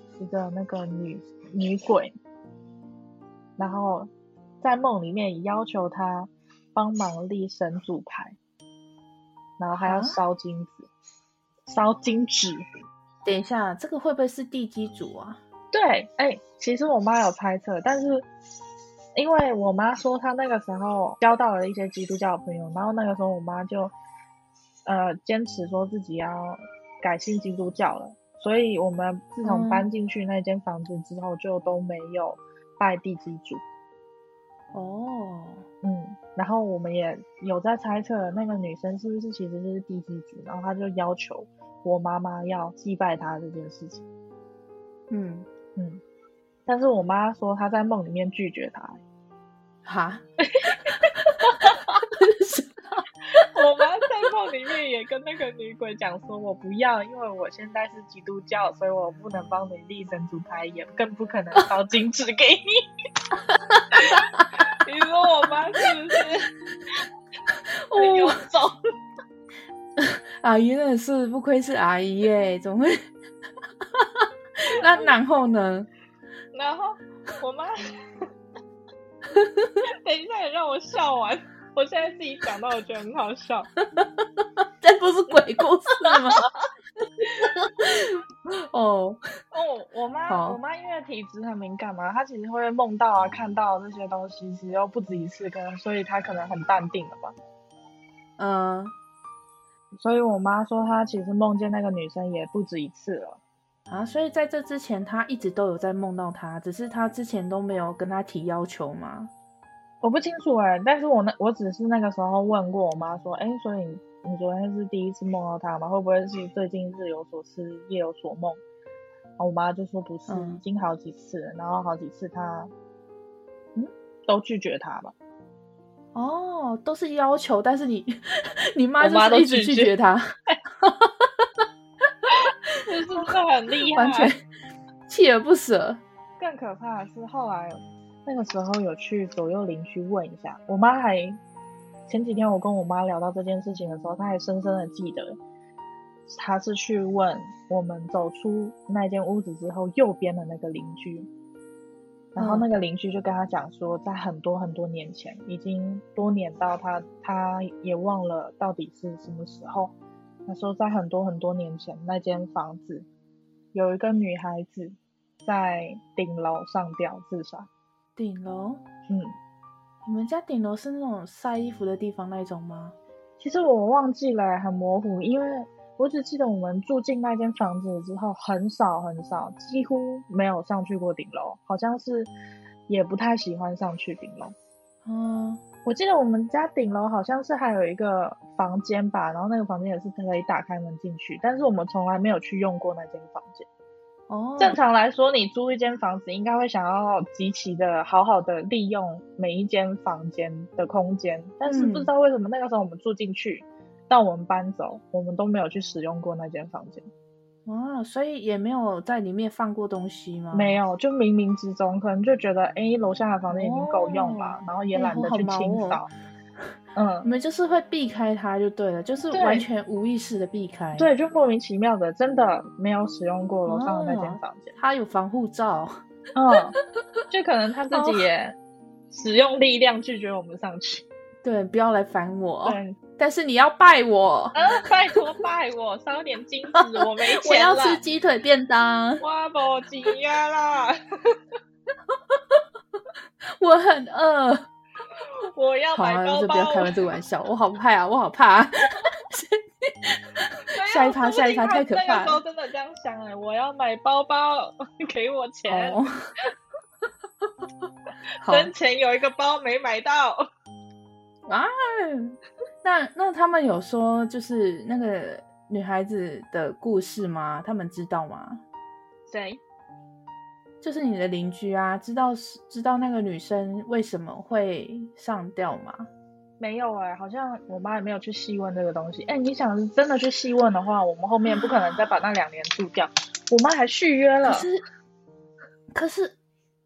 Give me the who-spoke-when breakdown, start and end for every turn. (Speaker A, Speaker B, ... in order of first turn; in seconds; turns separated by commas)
Speaker A: 0.1-2.1, Speaker A: 3.6-4.1, Speaker A: 4.6-8.4, Speaker A: 9.6-10.9, Speaker B: 9.8-10.2, Speaker A: 11.7-12.6, Speaker B: 13.2-15.4, Speaker A: 15.7-18.3, Speaker A: 19.1-23.9, Speaker A: 24.9-33.6, Speaker B: 29.4-29.8, Speaker B: 34.7-35.6, Speaker A: 35.8-44.0, Speaker B: 45.1-45.5, Speaker A: 46.7-49.0, Speaker B: 49.8-50.2, Speaker A: 50.5-52.0, Speaker B: 52.1-53.0, Speaker A: 53.4-62.8, Speaker B: 63.7-64.7, Speaker A: 63.9-66.5, Speaker B: 67.5-68.4, Speaker A: 67.9-68.8, Speaker B: 70.0-73.0, Speaker B: 73.8-75.9, Speaker A: 76.5-77.7, Speaker B: 79.3-79.8, Speaker A: 80.0-83.7, Speaker B: 83.9-86.4, Speaker A: 86.0-86.5, Speaker B: 87.4-89.2, Speaker A: 89.5-97.3, Speaker B: 90.3-90.6, Speaker B: 98.4-98.9, Speaker A: 99.9-103.4, Speaker B: 103.9-109.3, Speaker A: 110.0-118.6, Speaker A: 119.4-122.7, Speaker B: 120.3-120.6, Speaker A: 123.8-125.1, Speaker B: 126.1-131.5, Speaker A: 129.0-129.9, Speaker A: 132.3-134.3, Speaker B: 133.9-134.4, Speaker B: 135.1-136.0, Speaker A: 136.4-141.4, Speaker A: 142.1-145.4, Speaker A: 146.3-151.3, Speaker A: 152.3-159.9, Speaker B: 152.4-152.7, Speaker A: 160.4-163.1, Speaker A: 163.7-167.7, Speaker B: 168.2-168.8, Speaker A: 169.1-169.3, Speaker B: 170.0-172.9, Speaker A: 173.4-182.3, Speaker A: 182.9-184.5, Speaker B: 185.0-185.6, Speaker A: 185.8-193.7, Speaker B: 194.3-194.8, Speaker A: 194.6-207.1, Speaker B: 201.7-202.1, Speaker B: 207.7-210.8, Speaker A: 210.5-216.1, Speaker B: 213.5-216.0, Speaker A: 216.9-217.3, Speaker B: 217.2-221.1, Speaker A: 219.3-219.7, Speaker A: 220.9-224.8, Speaker B: 223.7-226.0, Speaker A: 226.3-226.8, Speaker A: 227.3-228.6, Speaker B: 227.9-228.2, Speaker A: 229.1-231.0, Speaker B: 231.4-234.6, Speaker A: 232.6-233.0, Speaker A: 234.5-238.0, Speaker B: 237.4-239.2, Speaker A: 239.2-241.3, Speaker B: 242.3-242.6, Speaker B: 243.5-244.7, Speaker A: 245.5-246.9, Speaker B: 245.9-252.4, Speaker A: 250.7-256.0, Speaker B: 255.7-256.1, Speaker B: 258.4-258.7, Speaker A: 258.4-260.4, Speaker B: 261.5-268.6, Speaker A: 269.3-269.6, Speaker B: 270.8-276.1, Speaker A: 276.6-284.7, Speaker B: 281.5-282.0, Speaker B: 284.4-284.8, Speaker B: 285.9-286.4